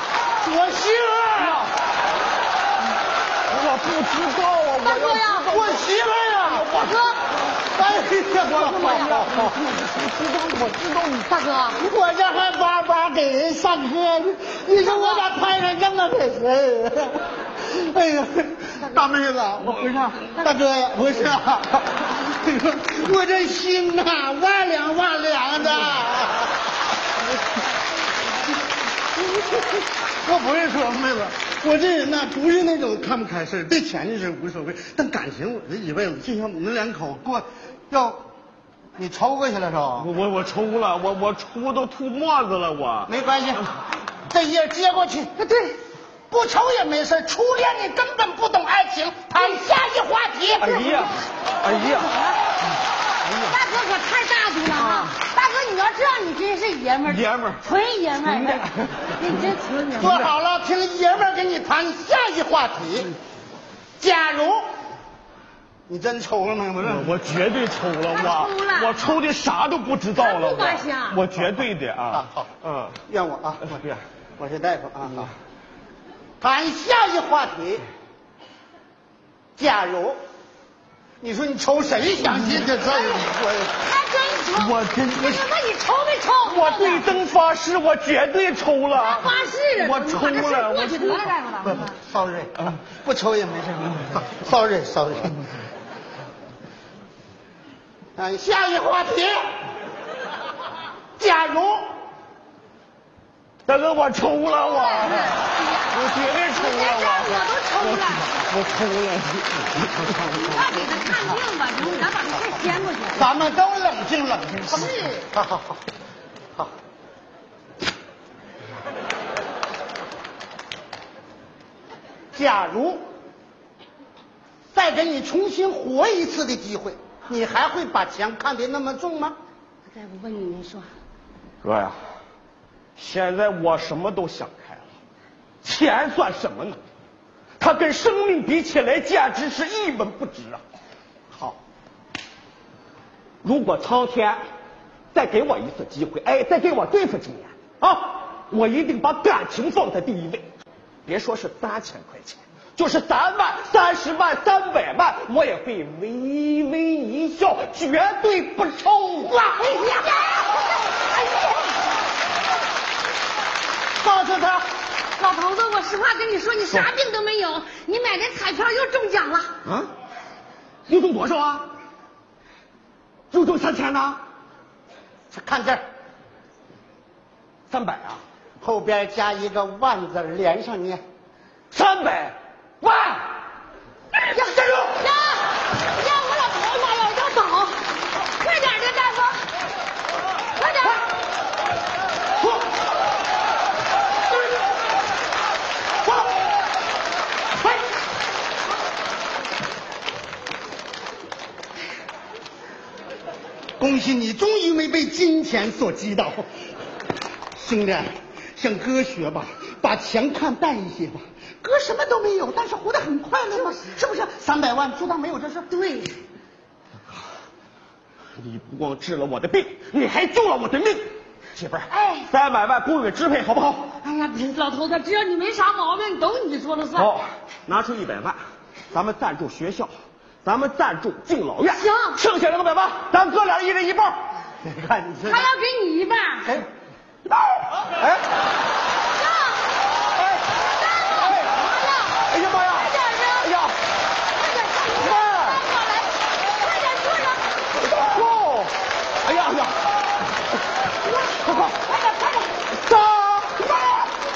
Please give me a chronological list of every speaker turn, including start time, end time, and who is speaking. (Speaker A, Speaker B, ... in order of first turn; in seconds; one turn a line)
Speaker A: 0.4-1.6
Speaker B: 1.4-1.7
Speaker B: 3.5-5.9
Speaker C: 4.8-5.5
Speaker A: 5.5-6.7
Speaker B: 6.5-7.2
Speaker C: 6.7-7.2
Speaker A: 7.7-9.6
Speaker B: 8.4-11.3
Speaker C: 11.3-11.8
Speaker A: 11.8-26.5
Speaker C: 14.8-15.3
Speaker B: 19.6-20.4
Speaker A: 30.1-38.2
Speaker A: 39.0-40.1
Speaker B: 40.0-43.1
Speaker A: 43.1-43.7
Speaker A: 44.3-45.3
Speaker C: 45.4-45.8
Speaker A: 46.3-51.0
Speaker C: 49.4-49.6
Speaker B: 50.6-52.1
Speaker C: 50.9-52.4
Speaker C: 53.4-60.3
Speaker B: 54.7-55.2
Speaker B: 57.1-57.6
Speaker B: 58.3-59.1
Speaker A: 60.0-63.1
Speaker A: 64.0-64.7
Speaker A: 65.9-67.1
Speaker B: 66.8-73.0
Speaker C: 68.1-69.2
Speaker C: 70.2-71.2
Speaker A: 72.1-72.5
Speaker A: 73.1-73.8
Speaker B: 73.7-74.0
Speaker A: 74.4-75.3
Speaker A: 76.4-77.8
Speaker A: 79.6-80.2
Speaker A: 81.2-83.8
Speaker B: 82.3-82.7
Speaker C: 83.8-87.2
Speaker B: 84.6-85.4
Speaker B: 86.5-91.3
Speaker C: 89.0-92.0
Speaker A: 91.6-95.4
Speaker A: 98.2-99.4
Speaker A: 101.2-101.9
Speaker B: 103.7-109.9
Speaker C: 104.5-108.3
Speaker A: 110.0-111.4
Speaker C: 110.3-113.3
Speaker A: 113.1-115.8
Speaker C: 114.7-115.2
Speaker A: 122.3-123.0
Speaker A: 124.7-129.4
Speaker C: 129.9-130.9
Speaker B: 131.6-132.0
Speaker B: 133.0-134.9
Speaker B: 135.6-136.8
Speaker B: 137.6-140.6
Speaker B: 143.4-144.4
Speaker B: 145.1-150.5
Speaker B: 151.1-159.6
Speaker C: 159.5-161.6
Speaker A: 164.0-164.7
Speaker C: 165.2-169.5
Speaker B: 169.7-169.9
Speaker B: 170.9-171.7
Speaker B: 173.3-174.2
Speaker A: 175.3-175.8
Speaker B: 177.7-178.2
Speaker A: 178.6-181.0
Speaker B: 181.7-183.3
Speaker C: 184.3-189.5
Speaker B: 184.3-185.0
Speaker C: 190.6-191.0
Speaker A: 203.8-206.5
Speaker A: 207.6-215.8
Speaker C: 215.7-216.2
Speaker B: 218.4-223.9
Speaker C: 221.9-222.3
Speaker C: 224.0-227.1
Speaker B: 227.0-228.4
Speaker B: 228.9-229.9
Speaker B: 230.4-234.2
Speaker C: 231.7-232.2
Speaker A: 234.6-235.5
Speaker C: 235.3-236.5
Speaker B: 237.3-238.2
Speaker C: 239.1-239.6
Speaker B: 240.2-240.4
Speaker C: 240.5-243.6
Speaker B: 241.1-241.6
Speaker B: 242.2-243.8
Speaker C: 244.3-247.5
Speaker B: 245.0-245.6
Speaker B: 247.7-249.8
Speaker C: 251.1-251.4
Speaker B: 251.4-254.1